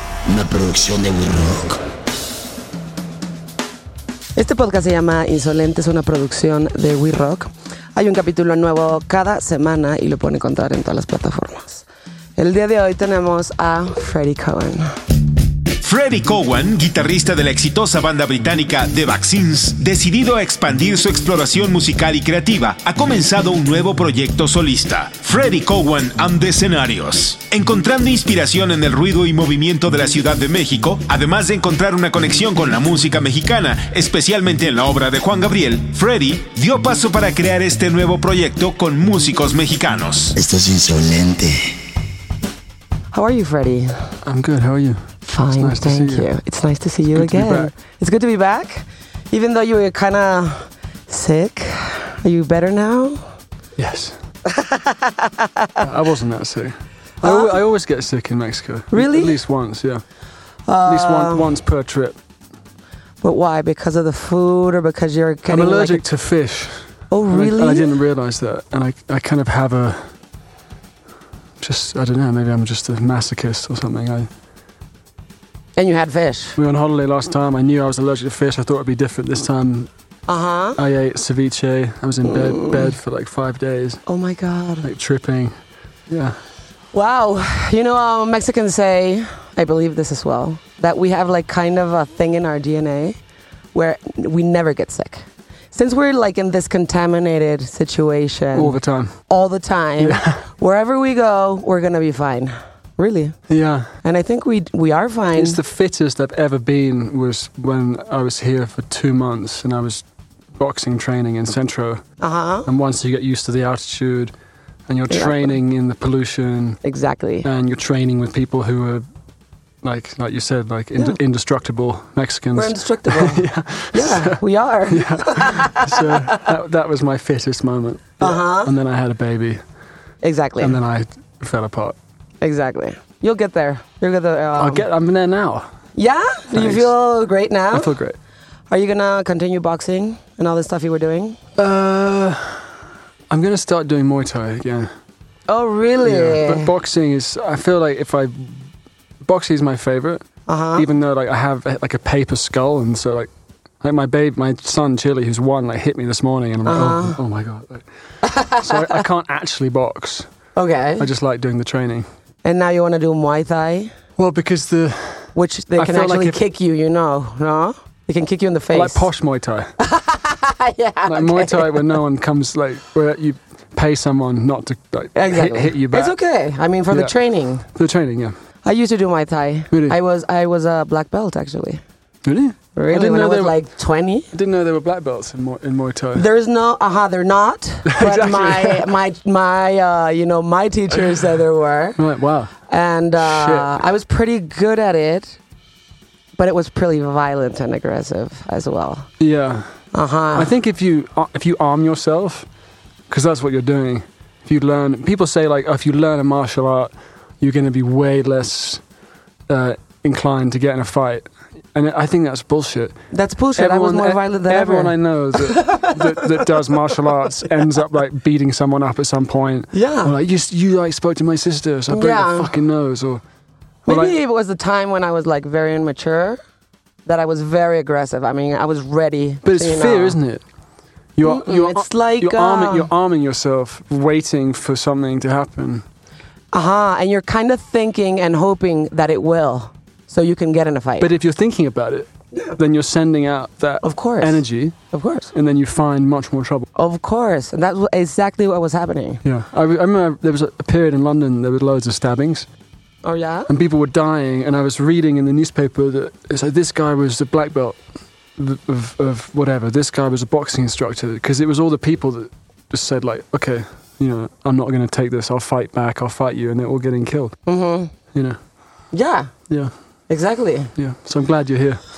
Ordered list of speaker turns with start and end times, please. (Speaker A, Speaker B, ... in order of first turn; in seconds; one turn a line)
Speaker A: 0.3-1.8
Speaker B: 4.4-11.9
Speaker B: 12.4-14.9
Speaker C: 15.8-40.3
Speaker A: 40.4-41.8
Speaker B: 43.1-44.1
Speaker D: 44.2-46.3
Speaker B: 45.3-53.2
Speaker D: 47.1-47.7
Speaker D: 53.8-54.2
Speaker B: 54.5-55.9
Speaker D: 55.8-60.0
Speaker B: 57.2-57.6
Speaker B: 58.9-59.4
Speaker B: 60.7-61.5
Speaker D: 60.9-62.2
Speaker B: 63.2-66.0
Speaker D: 65.5-70.1
Speaker B: 67.1-68.0
Speaker D: 71.6-74.3
Speaker B: 75.8-76.6
Speaker D: 76.6-79.9
Speaker B: 80.3-80.8
Speaker D: 80.8-84.0
Speaker B: 82.2-82.9
Speaker B: 84.1-84.9
Speaker D: 84.8-85.6
Speaker D: 86.1-86.4
Speaker B: 86.9-93.2
Speaker B: 93.7-103.4
Speaker D: 98.5-99.2
Speaker D: 100.0-100.4
Speaker D: 103.5-103.9
Speaker B: 104.0-105.6
Speaker D: 105.3-110.0
Speaker D: 110.5-112.0
Speaker B: 112.2-112.7
Speaker D: 112.7-114.3
Speaker D: 114.9-116.8
Speaker B: 115.1-115.5
Speaker B: 116.8-117.5
Speaker D: 117.4-119.0
Speaker D: 119.8-129.6
Speaker B: 122.5-126.5
Speaker B: 128.2-128.7
Speaker B: 130.2-130.8
Speaker D: 130.6-132.0
Speaker B: 132.4-134.8
Speaker D: 134.6-135.7
Speaker B: 136.0-137.9
Speaker D: 136.5-136.9
Speaker D: 137.7-138.2
Speaker B: 138.7-141.4
Speaker D: 141.6-142.8
Speaker D: 143.3-144.9
Speaker B: 145.5-146.7
Speaker D: 146.0-148.7
Speaker D: 149.2-153.3
Speaker B: 150.5-150.9
Speaker D: 153.8-157.9
Speaker B: 156.7-157.2
Speaker B: 158.2-159.0
Speaker D: 158.6-160.3
Speaker B: 160.6-161.1
Speaker D: 161.0-162.1
Speaker B: 162.4-163.9
Speaker D: 164.2-166.4
Speaker B: 165.3-169.1
Speaker D: 168.7-169.7
Speaker B: 169.8-171.9
Speaker D: 171.1-176.2
Speaker B: 175.2-177.7
Speaker D: 176.9-177.2
Speaker D: 177.7-178.3
Speaker B: 178.7-181.8
Speaker D: 179.7-180.0
Speaker D: 182.2-183.6
Speaker B: 182.8-184.3
Speaker D: 184.3-186.3
Speaker B: 186.2-192.0
Speaker D: 187.9-188.9
Speaker D: 192.0-192.5
Speaker B: 192.7-195.4
Speaker D: 193.2-193.8
Speaker B: 196.4-199.1
Speaker D: 199.2-199.7
Speaker B: 199.9-200.5
Speaker D: 200.3-202.5
Speaker D: 203.1-208.8
Speaker D: 209.5-213.0
Speaker B: 213.1-216.9
Speaker D: 213.6-223.2
Speaker B: 219.7-220.1
Speaker B: 221.9-222.6
Speaker D: 223.9-224.2
Speaker B: 223.9-226.4
Speaker B: 227.1-230.2
Speaker D: 229.4-230.4
Speaker D: 231.2-235.9
Speaker B: 231.2-232.9
Speaker B: 236.5-241.1
Speaker D: 241.0-244.8
Speaker B: 243.8-245.3
Speaker D: 245.3-246.7
Speaker B: 246.8-249.2
Speaker D: 249.2-252.5
Speaker B: 253.0-253.5
Speaker D: 253.5-257.8
Speaker D: 258.4-267.4
Speaker B: 267.5-267.9
Speaker D: 268.1-268.4
Speaker B: 268.9-269.3
Speaker B: 270.1-270.7
Speaker D: 270.8-271.8